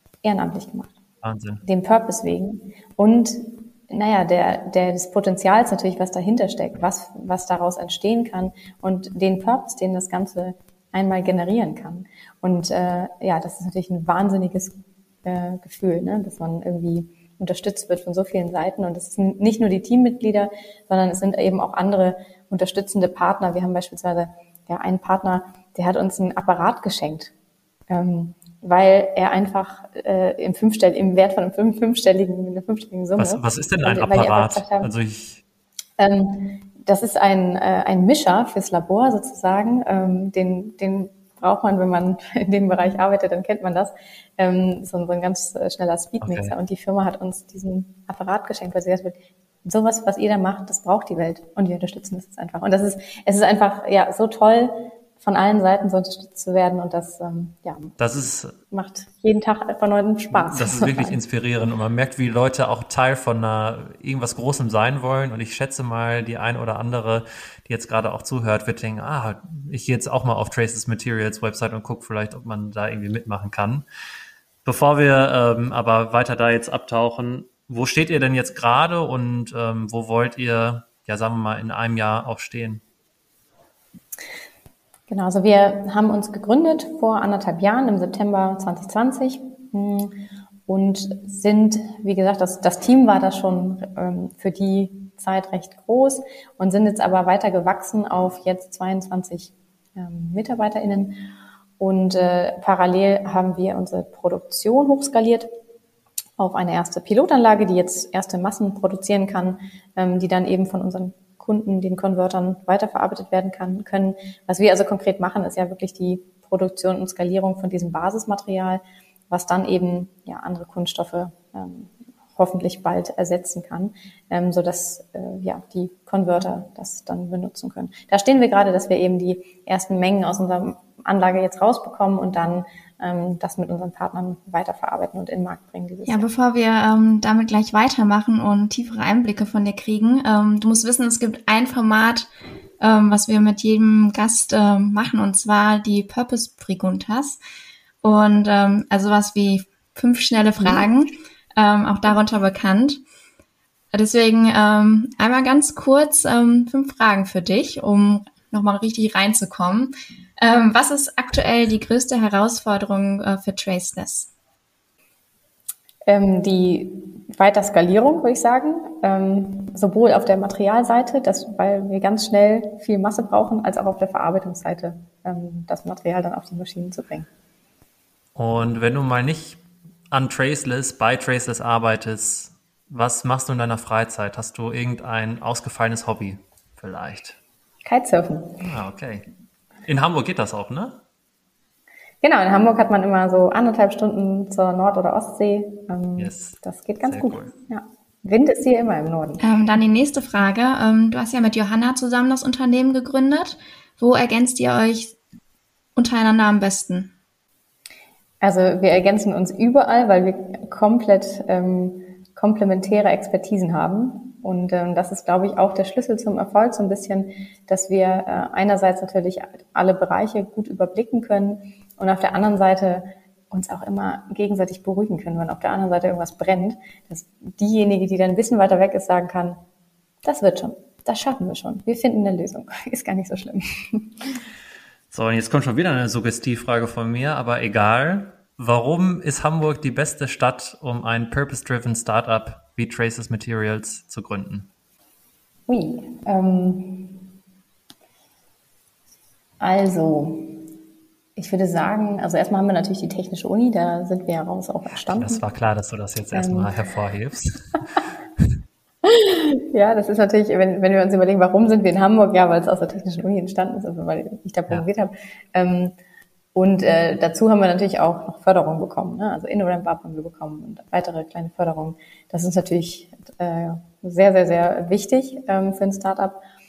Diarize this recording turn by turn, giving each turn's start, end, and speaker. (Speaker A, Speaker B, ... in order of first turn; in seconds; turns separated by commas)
Speaker A: 0.2-0.9, Speaker B: 1.2-1.6, Speaker A: 1.6-27.3, Speaker A: 27.9-34.9, Speaker B: 33.2-35.4, Speaker A: 36.0-58.0, Speaker B: 46.2-46.5, Speaker B: 58.0-58.6, Speaker A: 58.7-61.2, Speaker B: 60.3-73.8, Speaker B: 74.6-82.8, Speaker A: 85.1-105.5, Speaker A: 106.4-136.3, Speaker C: 136.1-142.3, Speaker C: 142.8-147.4, Speaker C: 148.0-153.0, Speaker C: 153.9-164.3, Speaker A: 166.1-177.3, Speaker B: 178.3-179.6, Speaker B: 180.1-187.4, Speaker A: 187.8-188.6, Speaker B: 188.6-189.2, Speaker B: 189.8-191.0, Speaker A: 192.2-199.4, Speaker B: 196.2-197.5, Speaker C: 199.4-205.2, Speaker C: 205.9-207.1, Speaker A: 208.4-229.6, Speaker A: 230.2-234.4, Speaker B: 235.1-244.7, Speaker A: 245.7-247.2, Speaker A: 249.6-250.7, Speaker A: 251.3-255.4, Speaker B: 255.1-257.8, Speaker A: 256.3-256.7, Speaker A: 259.0-265.9, Speaker A: 266.5-276.4